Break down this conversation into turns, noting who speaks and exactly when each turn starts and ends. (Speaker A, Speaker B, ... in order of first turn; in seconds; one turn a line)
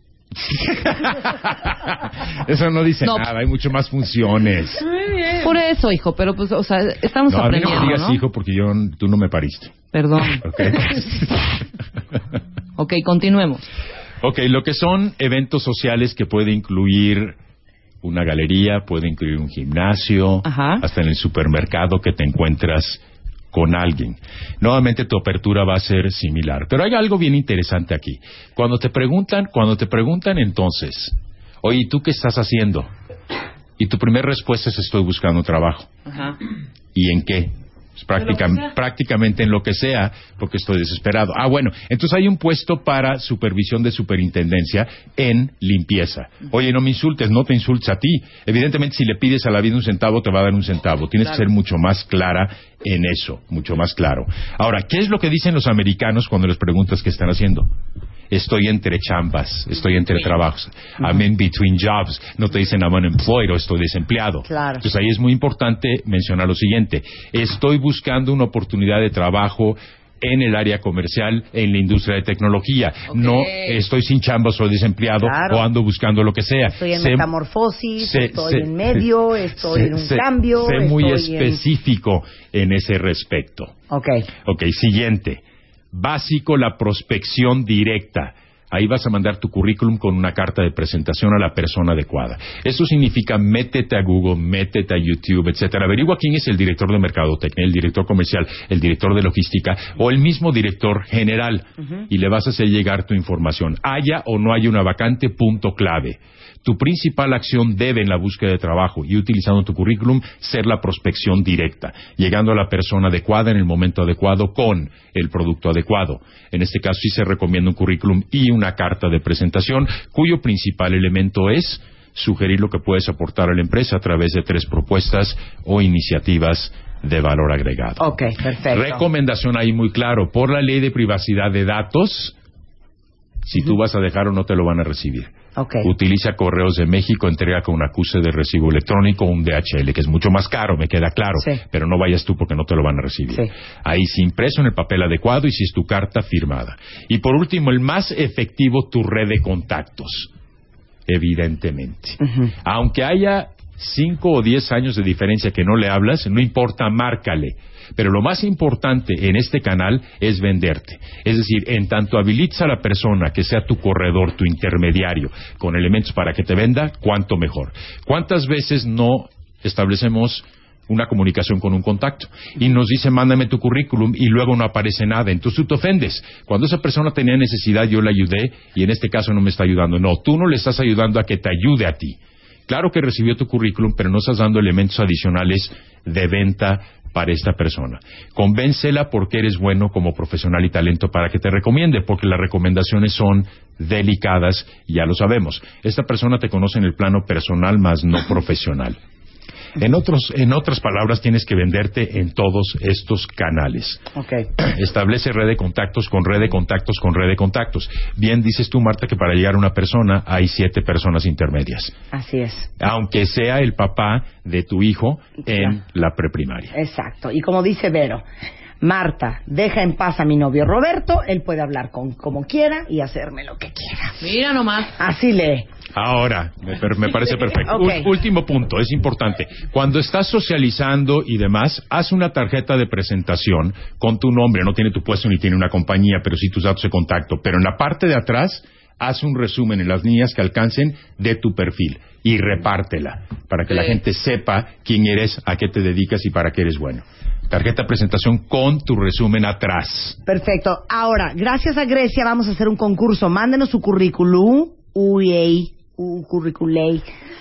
Speaker A: 0.3-4.9
Speaker B: 5.0-8.2
Speaker A: 7.3-9.8
Speaker B: 9.9-10.7
Speaker A: 10.4-11.4
Speaker B: 12.8-13.7
Speaker A: 14.2-17.4
Speaker A: 18.0-32.9
Speaker B: 20.4-20.9
Speaker A: 33.8-35.9
Speaker A: 36.9-57.7
Speaker A: 58.3-77.3
Speaker C: 64.5-64.8
Speaker B: 73.1-73.8
Speaker C: 75.2-75.7
Speaker C: 76.7-81.6
Speaker A: 78.0-79.1
Speaker A: 79.7-83.7
Speaker C: 83.9-84.3
Speaker A: 84.5-128.1
Speaker C: 128.0-129.0
Speaker A: 128.7-132.3
Speaker A: 133.4-150.3
Speaker C: 135.6-135.9
Speaker A: 151.1-199.0
Speaker C: 152.2-152.5
Speaker A: 199.8-204.0
Speaker C: 204.2-204.5
Speaker A: 204.6-211.9
Speaker C: 212.1-212.7
Speaker A: 212.8-216.7
Speaker C: 215.5-215.8
Speaker C: 216.7-218.2
Speaker C: 218.8-224.2
Speaker B: 224.2-225.0
Speaker C: 225.0-225.7
Speaker A: 225.9-250.2
Speaker C: 227.7-228.1
Speaker C: 250.3-257.1